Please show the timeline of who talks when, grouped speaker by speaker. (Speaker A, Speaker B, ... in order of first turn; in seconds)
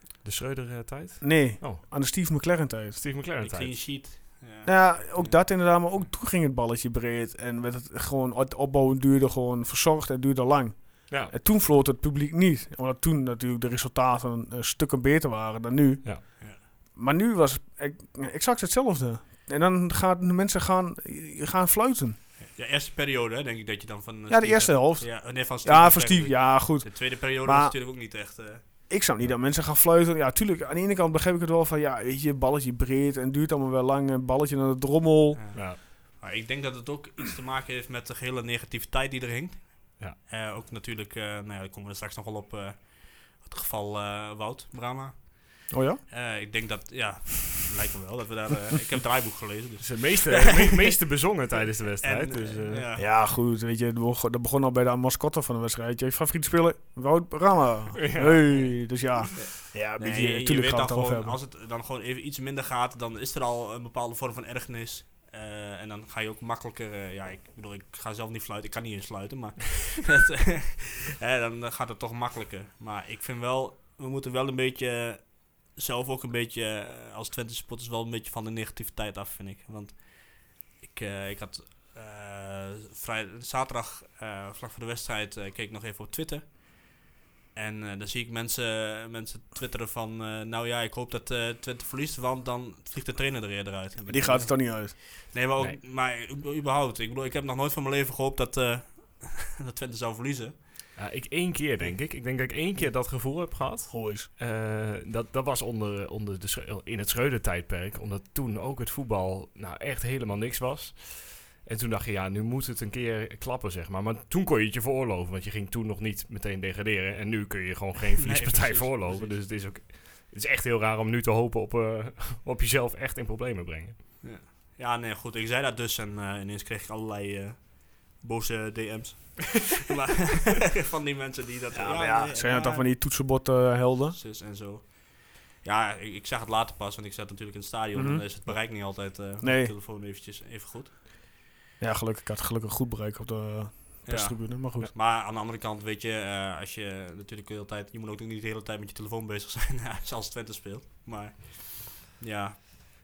Speaker A: 0.2-1.9, 3.0-3.8, 11.1-11.3, 49.8-52.9, 58.0-58.6, 101.0-124.0
Speaker B: 1.2-3.0, 4.6-22.2, 24.3-27.8, 28.9-35.4, 45.7-46.0, 53.0-61.4, 94.1-95.0, 103.9-104.3, 131.8-134.2, 137.9-138.2, 139.4-139.7, 141.8-144.9
Speaker C: 3.4-6.1, 22.4-28.9, 35.3-50.9, 52.0-53.1, 59.4-87.0, 87.5-100.8, 101.8-102.9, 118.2-119.4, 124.2-132.9, 134.1-140.9, 144.1-152.8